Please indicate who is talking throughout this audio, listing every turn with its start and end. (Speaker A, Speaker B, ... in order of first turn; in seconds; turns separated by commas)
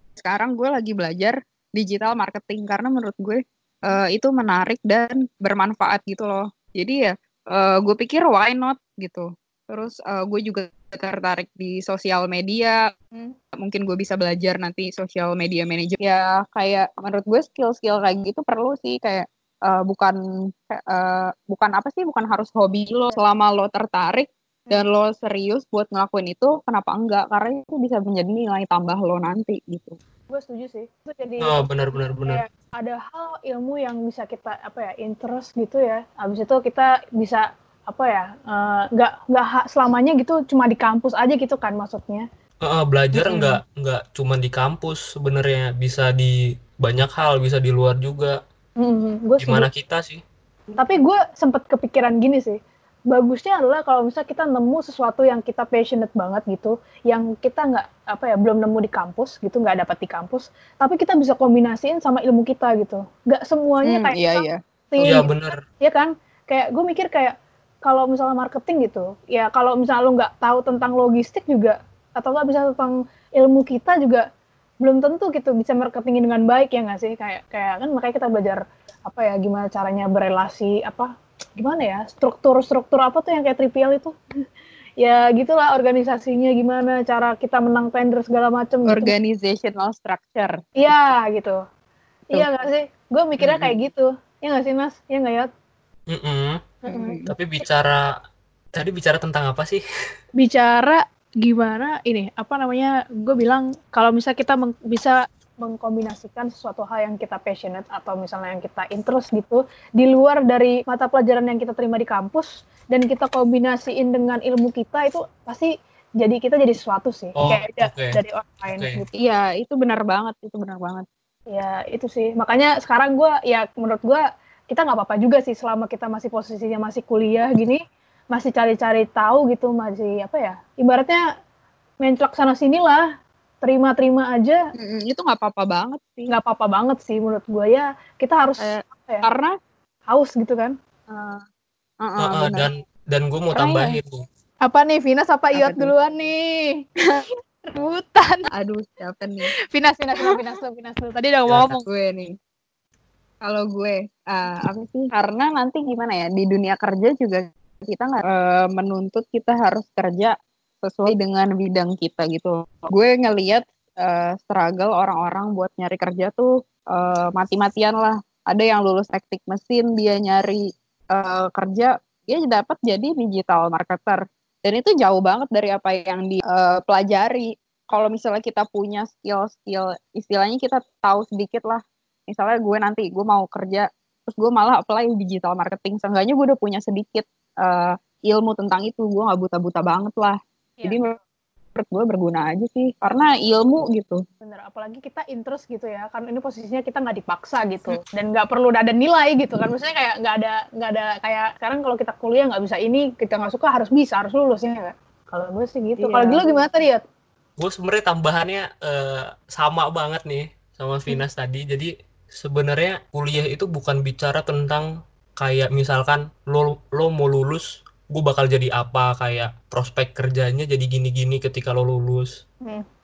Speaker A: 0.2-12.8, Speaker A: 13.6-20.2, Speaker A: 20.7-30.0, Speaker B: 30.3-42.3, Speaker C: 31.4-32.4, Speaker C: 42.6-48.4, Speaker B: 48.8-49.7, Speaker C: 49.4-50.2, Speaker B: 50.8-74.2, Speaker A: 63.9-65.1, Speaker C: 65.0-65.6, Speaker B: 74.8-84.1, Speaker B: 85.0-89.2, Speaker A: 88.9-90.6, Speaker B: 90.8-91.6, Speaker B: 92.3-95.5, Speaker A: 93.4-93.7, Speaker C: 96.1-96.6, Speaker B: 96.8-97.3, Speaker A: 96.9-97.3, Speaker C: 97.3-98.1, Speaker C: 98.8-99.8, Speaker B: 100.4-119.1, Speaker C: 117.4-118.2, Speaker C: 118.7-119.0, Speaker A: 119.2-121.1, Speaker B: 121.5-127.8, Speaker B: 128.3-131.2, Speaker B: 132.0-133.1, Speaker B: 133.6-134.6, Speaker A: 134.8-136.3, Speaker B: 136.3-139.3, Speaker A: 138.6-139.5, Speaker B: 140.1-140.7, Speaker A: 141.1-141.4, Speaker A: 142.0-142.7, Speaker C: 142.2-144.2, Speaker A: 143.5-144.0, Speaker B: 144.6-148.5, Speaker A: 145.6-145.9, Speaker A: 148.5-149.5, Speaker B: 149.7-151.9, Speaker A: 151.9-152.3, Speaker A: 153.4-170.6, Speaker A: 171.1-191.1, Speaker B: 190.8-191.2, Speaker A: 191.8-194.2, Speaker B: 194.4-207.0, Speaker A: 206.0-206.4, Speaker C: 207.6-222.3